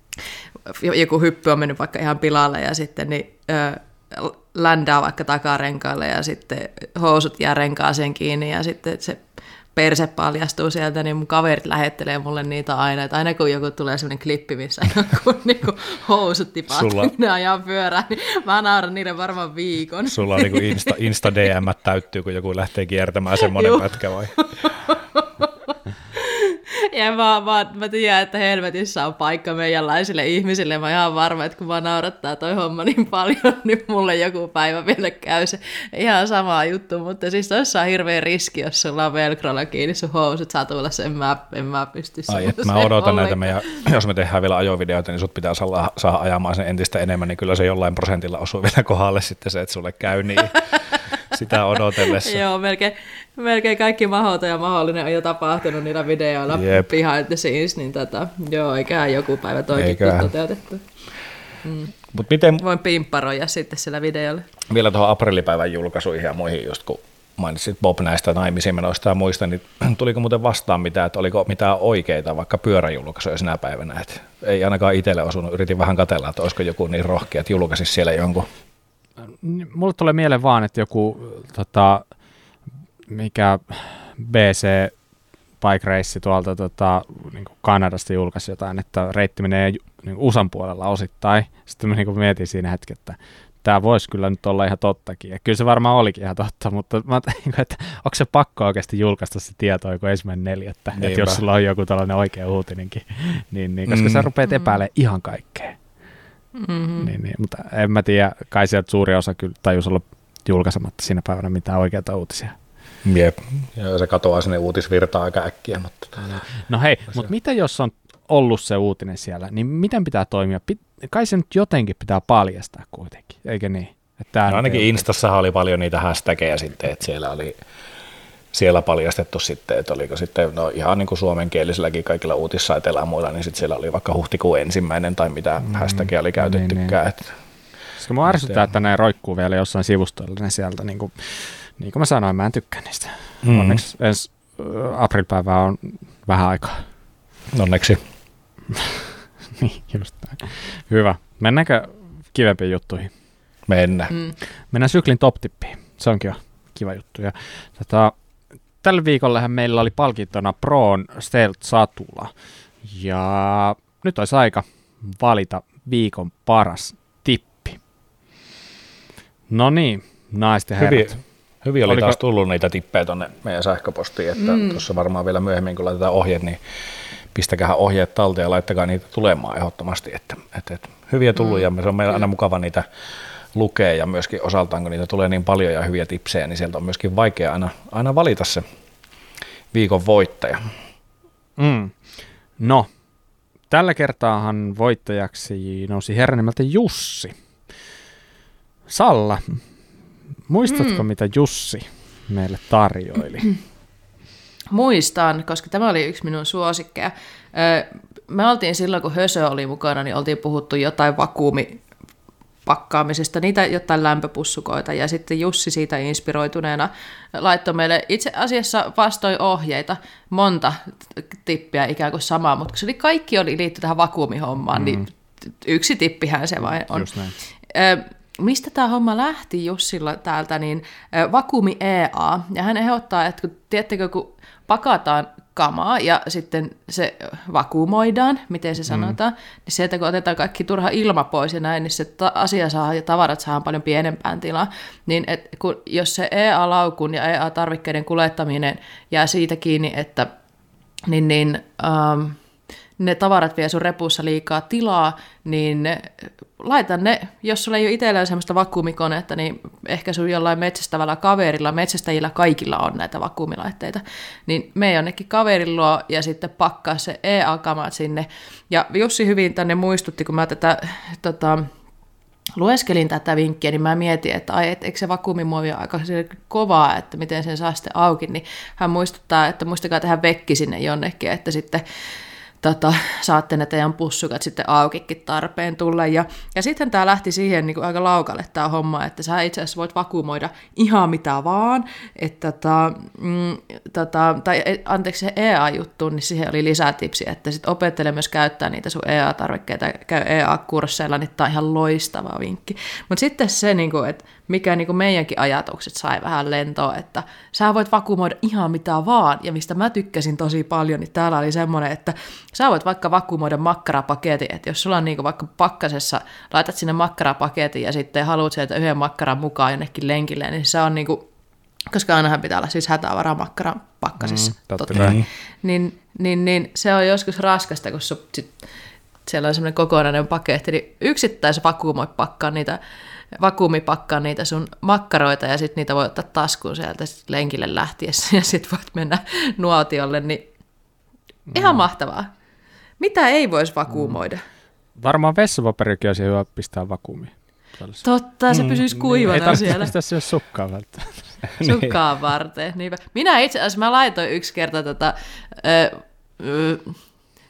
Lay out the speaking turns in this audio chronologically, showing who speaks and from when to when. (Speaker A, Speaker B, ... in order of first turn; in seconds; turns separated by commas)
Speaker A: 0.7-9.2, Speaker A: 9.7-20.9, Speaker B: 16.7-17.1, Speaker B: 20.1-24.3, Speaker A: 23.5-23.8, Speaker A: 24.4-43.7, Speaker B: 42.3-50.6, Speaker B: 51.2-52.4, Speaker A: 51.9-60.8, Speaker B: 56.5-56.9, Speaker B: 59.7-60.3, Speaker A: 61.6-61.9, Speaker B: 62.1-62.6, Speaker A: 62.6-64.5, Speaker B: 64.7-78.5, Speaker C: 79.4-82.0, Speaker C: 83.1-84.9, Speaker C: 85.6-105.8, Speaker B: 101.0-101.4, Speaker B: 103.9-104.3, Speaker A: 106.5-107.1, Speaker C: 107.0-112.5, Speaker B: 113.0-116.4, Speaker C: 116.2-125.0, Speaker B: 124.5-127.6, Speaker B: 128.5-137.3, Speaker C: 135.7-136.9, Speaker C: 138.0-146.8, Speaker B: 138.3-138.6, Speaker B: 143.4-143.8, Speaker B: 147.5-148.0, Speaker C: 148.7-153.1, Speaker B: 153.7-154.2, Speaker C: 154.7-158.1, Speaker C: 158.8-162.3, Speaker C: 162.8-167.8, Speaker C: 169.5-171.2, Speaker B: 170.8-176.6, Speaker C: 171.8-172.2, Speaker A: 174.4-174.8, Speaker B: 177.3-182.8, Speaker A: 181.4-181.6, Speaker B: 183.5-188.6, Speaker B: 189.7-190.7, Speaker C: 191.6-191.9, Speaker C: 192.6-192.9, Speaker C: 193.7-197.3, Speaker C: 198.9-199.6, Speaker C: 200.5-203.5, Speaker A: 200.7-201.1, Speaker A: 204.7-211.8, Speaker A: 212.7-227.1, Speaker C: 224.8-225.0, Speaker C: 226.6-227.3, Speaker A: 227.7-250.3, Speaker A: 251.1-252.4, Speaker A: 253.0-271.7, Speaker A: 272.6-281.8, Speaker A: 282.6-321.3, Speaker A: 321.9-328.5, Speaker C: 324.2-325.2, Speaker B: 324.9-325.2, Speaker A: 329.2-332.8, Speaker A: 333.3-340.4, Speaker C: 341.5-341.8, Speaker A: 341.5-342.3, Speaker A: 343.0-344.4, Speaker C: 343.9-344.2, Speaker C: 345.0-348.0, Speaker A: 348.0-349.9, Speaker C: 348.6-351.2, Speaker B: 351.6-351.9, Speaker A: 351.6-357.0